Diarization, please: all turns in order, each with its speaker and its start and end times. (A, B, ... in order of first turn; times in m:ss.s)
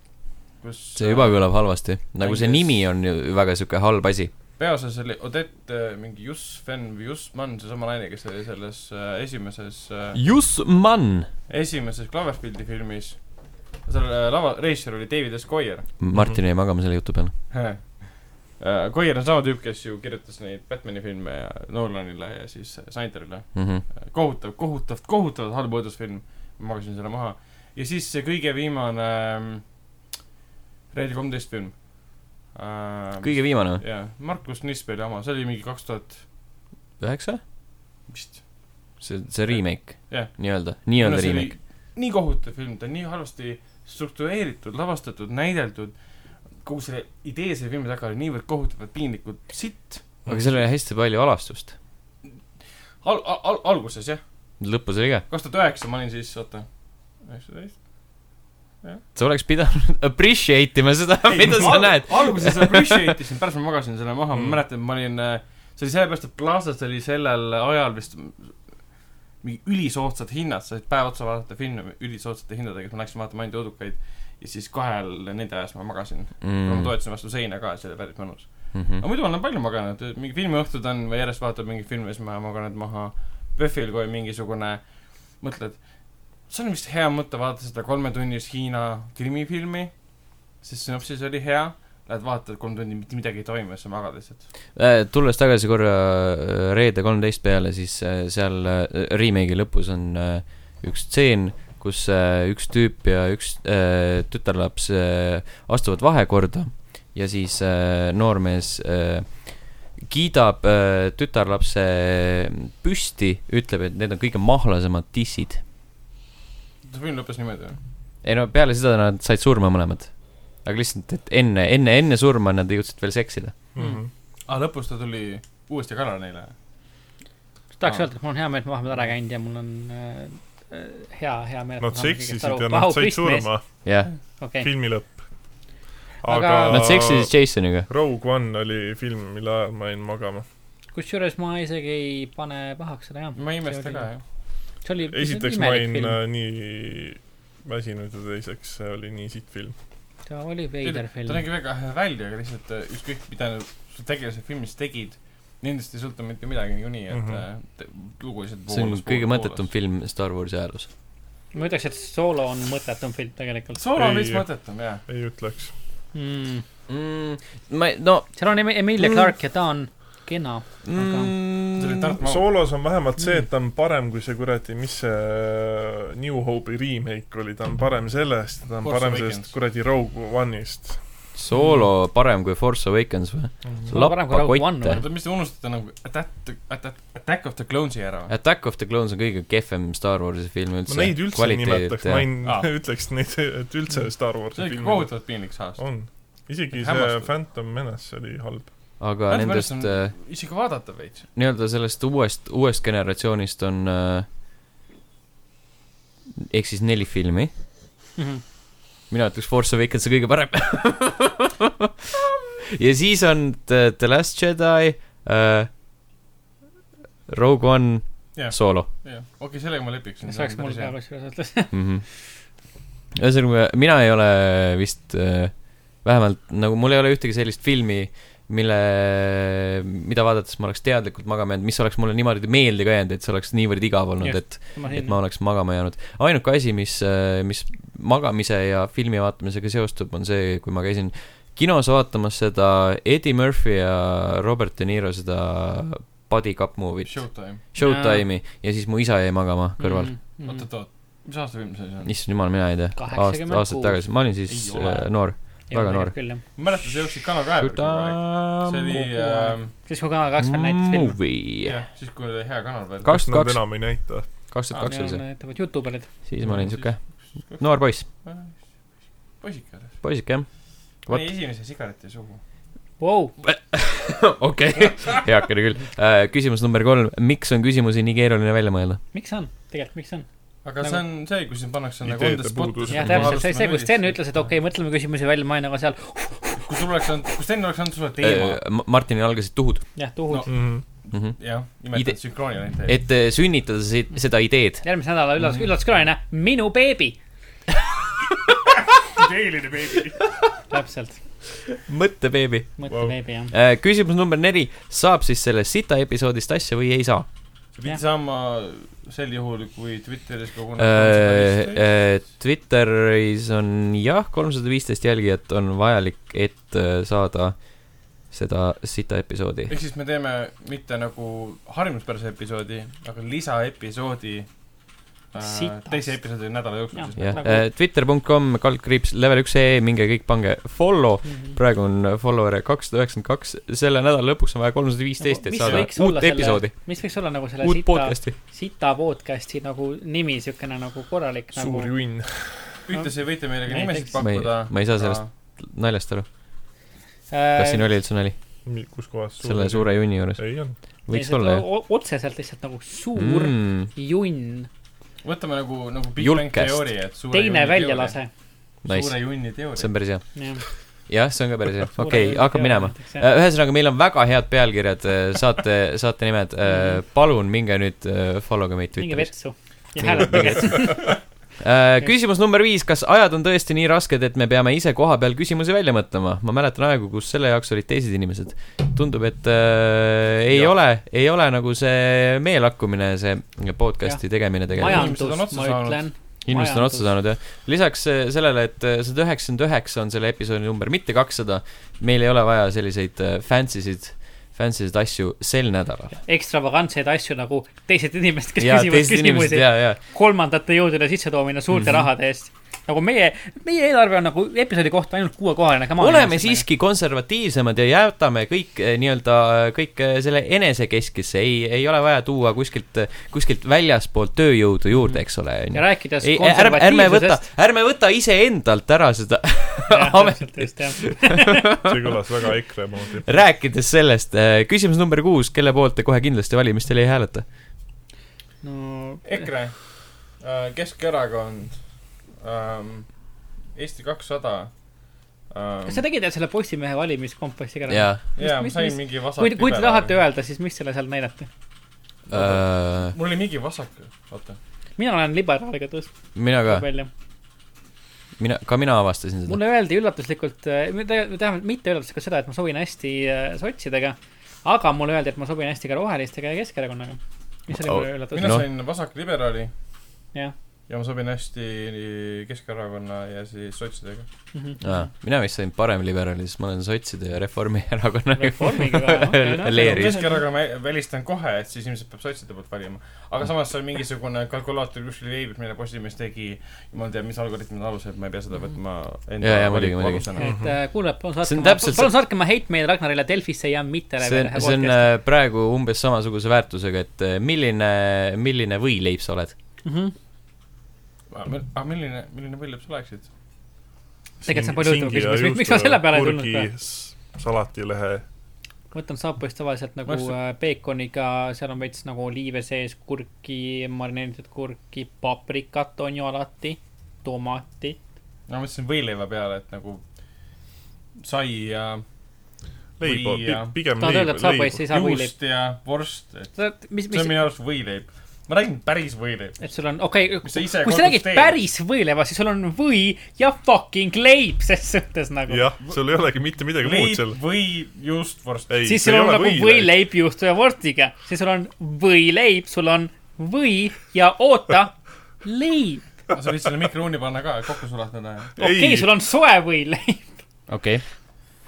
0:00.6-0:02.8 A
0:01.0-0:04.3 B
0:04.6-0:10.2 A
0:10.1-0:11.3 B
0:11.5-0:15.9 A
0:16.0-0:17.3 B
0:16.1-0:16.4 C
0:17.5-0:29.6 A
0:23.5-0:23.8 B
0:30.9-0:36.2 A
0:33.2-0:33.8 B
0:37.0-0:37.4 B
0:38.0-0:38.4 A
0:39.0-0:41.5 B
0:39.5-0:50.2 A
0:50.3-0:51.7 B
0:53.0-0:54.2 A
0:54.6-0:55.2 B
0:55.3-0:59.0 A
0:59.1-1:03.1 B
1:01.3-1:34.4 A
1:16.4-1:16.9 B
1:18.7-1:19.0 B
1:34.7-1:55.6 B
1:56.8-1:57.8 A
1:58.2-2:03.5 B
2:03.7-2:04.1 C
2:04.5-2:06.5 A
2:07.8-2:13.5 D
2:11.8-2:13.6 C
2:13.8-2:14.1 B
2:14.4-2:14.7 D
2:14.6-2:15.5 C
2:16.2-2:16.9 D
2:16.2-2:20.4 C
2:16.7-2:17.9 B
2:20.9-2:24.1 D
2:23.3-2:24.2 A
2:24.8-2:26.2 D
2:25.1-2:29.7 C
2:30.3-2:31.4 D
2:30.8-2:39.6 A
2:37.1-2:37.4 C
2:38.7-2:40.9 B
2:41.5-2:43.8 D
2:43.7-2:45.0 A
2:44.0-2:44.5 C
2:45.0-2:45.7 C
2:46.1-2:46.6 D
2:46.9-2:49.3 B
2:48.3-2:51.3 D
2:50.8-2:52.2 B
2:51.7-2:52.4 A
2:52.2-3:01.0 C
2:53.2-2:53.4 D
2:58.8-2:59.5 A
3:01.4-3:05.0 B
3:03.9-3:05.0 D
3:04.9-3:08.3 A
3:08.3-3:12.2 B
3:10.9-3:18.7 C
3:12.4-3:12.7 A
3:14.5-3:15.8 A
3:16.7-3:17.3 A
3:19.0-3:20.2 B
3:19.3-3:21.2 A
3:21.3-3:24.3 B
3:26.5-3:27.5 B
3:28.2-3:28.4 D
3:29.1-3:31.5 B
3:32.6-3:35.7 B
3:37.3-3:38.9 B
3:38.3-3:40.9 A
3:40.3-3:41.8 D
3:41.7-3:42.2 B
3:43.2-4:10.1 B
3:54.2-3:55.2 D
4:07.0-4:07.6 A
4:07.8-4:08.2 D
4:09.8-4:10.6 D
4:10.4-4:12.1 A
4:12.0-4:16.2 B
4:13.0-4:14.0 D
4:14.5-4:15.1 A
4:15.7-4:16.4 D
4:16.5-4:19.7 A
4:17.6-4:18.9 B
4:18.9-4:21.2 D
4:20.4-4:21.8 B
4:21.6-4:23.1 A
4:23.0-4:25.2 B
4:23.1-4:24.3 C
4:24.8-4:26.1 D
4:26.2-4:28.1 B
4:26.4-4:30.0 A
4:30.0-4:31.3 B
4:31.1-4:32.4 A
4:33.0-4:33.3 D
4:33.4-4:39.0 B
4:34.8-4:35.2 A
4:39.1-4:41.0 D
4:40.6-4:44.3 A
4:42.0-4:43.2 C
4:42.9-4:46.8 D
4:43.0-4:43.3 B
4:46.6-4:48.6 A
4:48.2-4:49.9 B
4:50.0-4:50.5 D
4:50.3-4:53.0 A
4:50.5-4:50.8 C
4:51.1-4:54.9 B
4:54.8-4:57.2 D
4:59.2-5:00.2 A
5:00.7-5:01.2 D
5:01.7-5:03.0 B
5:02.8-5:03.5 D
5:02.9-5:03.1 C
5:03.5-5:07.2 B
5:07.7-5:11.8 A
5:10.8-5:19.7 B
5:19.7-5:24.5 A
5:25.3-5:27.6 A
5:25.4-5:26.2 D
5:26.9-5:27.7 D
5:27.2-5:38.4 B
5:31.2-5:31.6 D
5:35.2-5:41.9 D
5:35.6-5:35.9 A
5:41.5-5:42.8 C
5:42.9-5:45.3 A
5:43.6-5:44.2 D
5:44.2-5:46.2 B
5:47.3-5:47.9 D
5:47.6-5:48.4 B
5:48.6-5:50.8 C
5:49.4-5:51.6 B
5:51.1-5:54.7 D
5:53.2-5:53.9 B
5:55.2-5:58.2 A
5:56.2-5:56.9 B
5:57.3-5:58.3 D
5:58.8-6:09.3 B
5:58.8-5:59.9 A
6:00.3-6:00.6 D
6:02.0-6:03.2 D
6:06.6-6:07.0 D
6:09.0-6:11.2 D
6:09.9-6:11.0 B
6:11.6-6:25.1 B
6:24.0-6:27.1 D
6:24.8-6:26.0 A
6:26.4-6:36.2 B
6:36.2-6:46.6 D
6:38.6-6:40.0 B
6:41.7-6:42.1 B
6:46.0-7:02.1 B
6:55.0-6:57.4 D
6:59.9-7:01.5 D
7:01.8-7:03.3 C
7:03.2-7:07.4 B
7:08.6-7:09.4 D
7:09.2-7:14.7 A
7:15.5-7:16.0 A
7:15.8-7:21.5 D
7:17.9-7:18.2 B
7:18.4-7:20.1 A
7:22.3-7:23.1 B
7:22.3-7:24.6 A
7:25.0-7:27.1 D
7:26.3-7:26.8 B
7:28.4-7:29.6 B
7:29.5-7:38.6 D
7:37.7-7:38.7 B
7:38.3-7:39.7 A
7:40.9-7:44.3 A
7:44.5-7:45.1 D
7:44.8-7:50.3 B
7:48.3-7:50.4 D
7:49.7-8:00.6 A
7:59.4-8:00.2 B
8:00.4-8:05.1 D
8:00.4-8:00.8 C
8:01.4-8:02.2 B
8:04.2-8:09.5 B
8:09.8-8:10.1 D
8:11.3-8:13.3 A
8:14.4-8:18.2 C
8:14.4-8:16.7 D
8:18.9-8:28.0 D
8:20.0-8:20.3 A
8:28.5-8:30.0 A
8:31.2-8:32.0 A
8:33.0-8:34.9 C
8:33.0-8:33.7 A
8:34.0-8:35.3 D
8:34.9-8:36.6 A
8:36.5-8:37.4 D
8:37.1-8:39.6 A
8:39.6-8:45.7 D
8:40.4-8:41.6 A
8:45.5-8:47.4 C
8:46.8-8:48.8 A
8:48.7-8:50.0 C
8:48.8-8:56.1 D
8:56.3-8:58.5 A
8:58.6-8:59.1 C
8:58.6-9:00.3 D
9:00.7-9:01.0 B